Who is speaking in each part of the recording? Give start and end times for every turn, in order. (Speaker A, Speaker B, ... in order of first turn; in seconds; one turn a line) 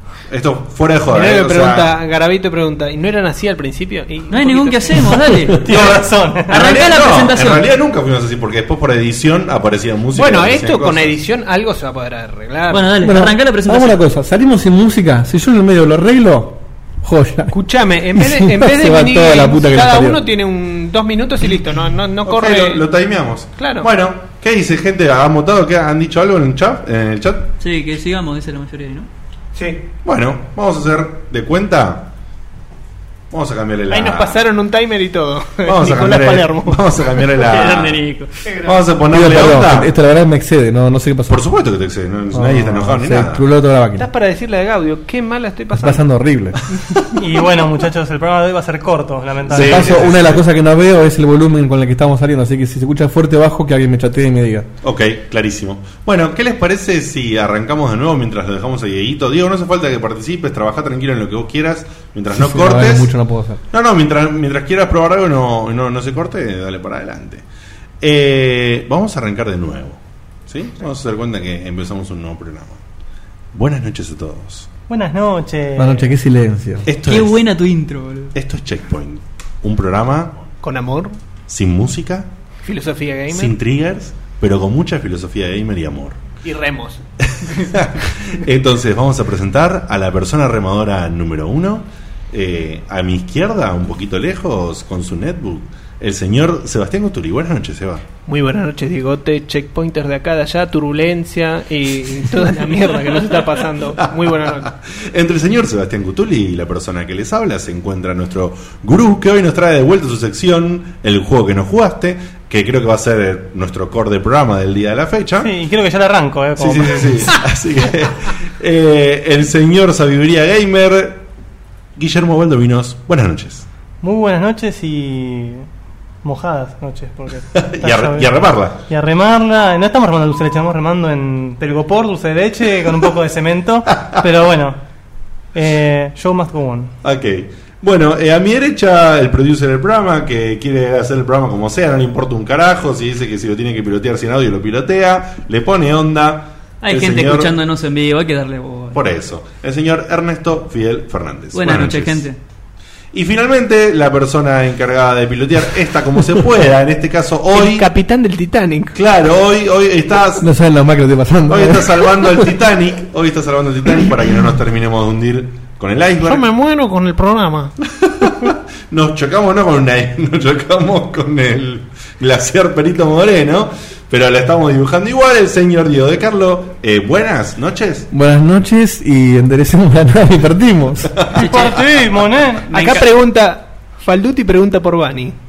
Speaker A: 0.3-2.0
Speaker B: 1.1-5.2
Speaker C: 4.3-5.8
Speaker D: 5.6-6.9
Speaker A: 5.7-11.2
Speaker C: 6.5-7.7
Speaker B: 10.1-12.9
Speaker C: 12.7-14.0
Speaker E: 13.0-17.6
Speaker B: 17.5-22.8
Speaker E: 18.1-20.2
Speaker A: 22.2-27.5
Speaker B: 23.6-23.9
Speaker C: 27.6-29.1
Speaker B: 29.5-29.8
Speaker A: 30.1-32.1
Speaker A: 33.3-34.5
Speaker B: 33.9-37.6
Speaker A: 35.7-38.0
Speaker C: 37.4-38.3
Speaker B: 38.5-38.7
Speaker A: 38.6-39.9
Speaker E: 39.1-41.4
Speaker A: 41.3-43.5
Speaker E: 42.3-44.1
Speaker B: 44.0-46.0
Speaker E: 45.8-46.6
Speaker D: 47.1-50.1
Speaker A: 49.5-50.4
Speaker E: 49.5-54.7
Speaker A: 54.8-63.1
Speaker E: 62.3-63.6
Speaker A: 63.7-67.4
Speaker A: 68.0-72.8
Speaker A: 73.5-74.7
Speaker D: 74.9-76.1
Speaker E: 75.8-76.9
Speaker A: 76.8-77.5
Speaker C: 77.1-78.3
Speaker A: 78.3-80.4
Speaker B: 80.6-81.2
Speaker A: 81.5-82.3
Speaker B: 82.6-83.6
Speaker A: 83.3-86.2
Speaker B: 86.4-87.0
Speaker A: 87.3-98.0
Speaker B: 98.3-104.7
Speaker A: 104.0-115.5
Speaker D: 115.4-117.4
Speaker A: 116.6-121.2
Speaker A: 122.0-123.7
Speaker D: 124.0-125.7
Speaker D: 126.2-128.3
Speaker A: 127.5-128.8
Speaker D: 128.9-134.8
Speaker D: 135.5-136.9
Speaker A: 137.0-147.5
Speaker C: 146.8-149.0
Speaker A: 148.9-152.2
Speaker C: 151.5-152.4
Speaker A: 153.1-157.9
Speaker B: 157.5-159.0
Speaker A: 158.9-160.5
Speaker E: 160.4-162.5
Speaker A: 161.5-166.4
Speaker B: 166.2-167.7
Speaker A: 168.0-178.1
Speaker E: 178.1-181.2
Speaker C: 181.3-182.0
Speaker D: 181.5-182.7
Speaker C: 182.7-183.1
Speaker B: 182.7-185.4